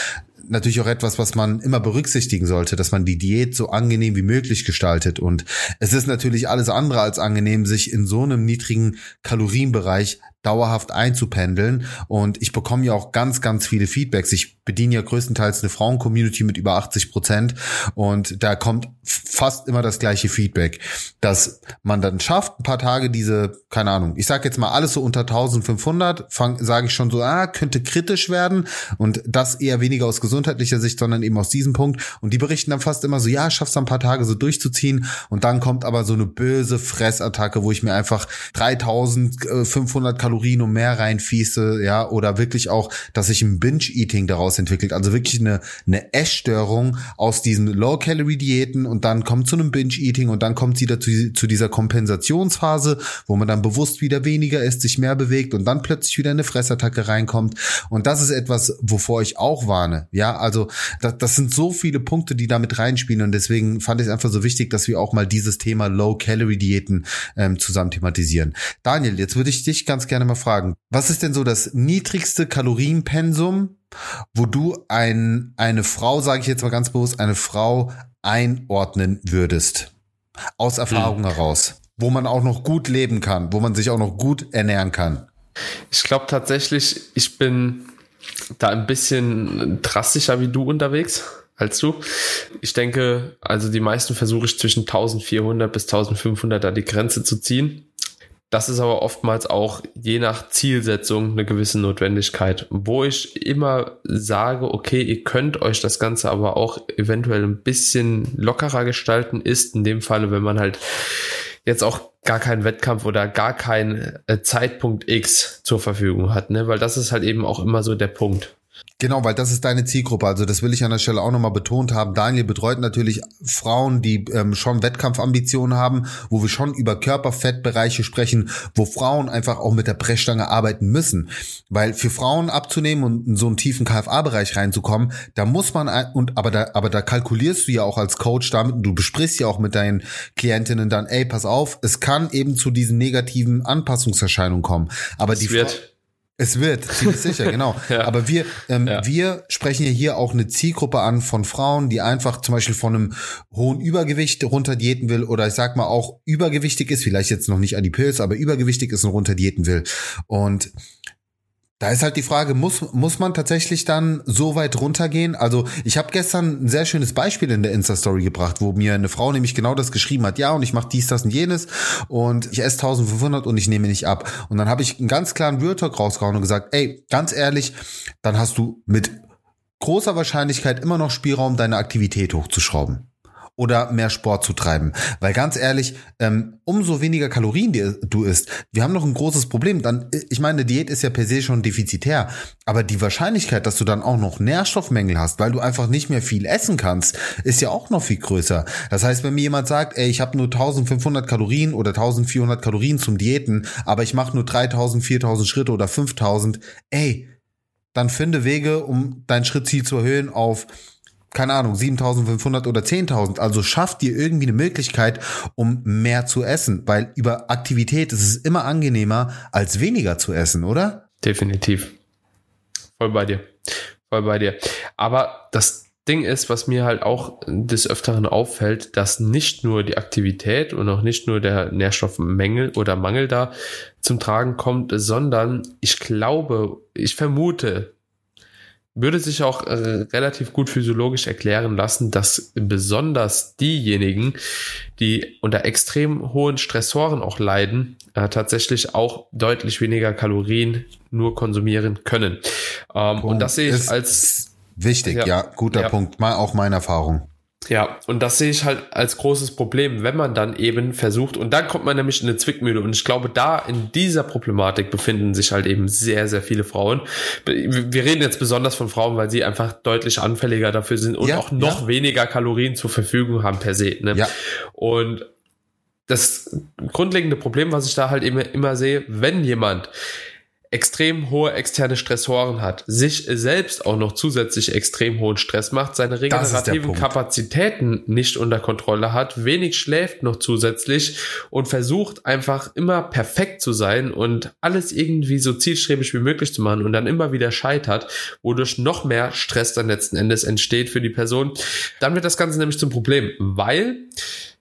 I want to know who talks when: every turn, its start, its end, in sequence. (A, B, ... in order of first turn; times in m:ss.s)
0:00.5-1:13.8 A
1:14.3-1:19.9 A
1:20.6-1:25.3 A
1:20.9-1:21.2 B
1:25.9-1:27.9 B
1:28.6-1:32.0 B
1:32.6-1:37.9 B
1:38.5-1:50.8 B
1:51.7-1:58.5 B
1:59.0-2:25.8 A
2:25.3-2:25.9 B
2:26.4-2:40.7 A
2:27.0-2:28.2 B
2:41.8-2:59.1 A
2:59.8-3:27.3 A
3:27.9-3:30.7 A
3:31.3-3:41.0 A
3:41.2-3:41.9 B
3:43.0-3:43.5 B
3:44.1-3:57.9 B
3:59.0-4:04.4 B
4:05.0-4:14.3 B
4:13.2-4:17.3 A
4:15.1-4:16.0 B
4:17.7-4:35.3 B
4:31.2-4:31.8 A
4:36.1-4:39.9 B
4:40.7-5:04.1 B
4:46.3-4:47.1 A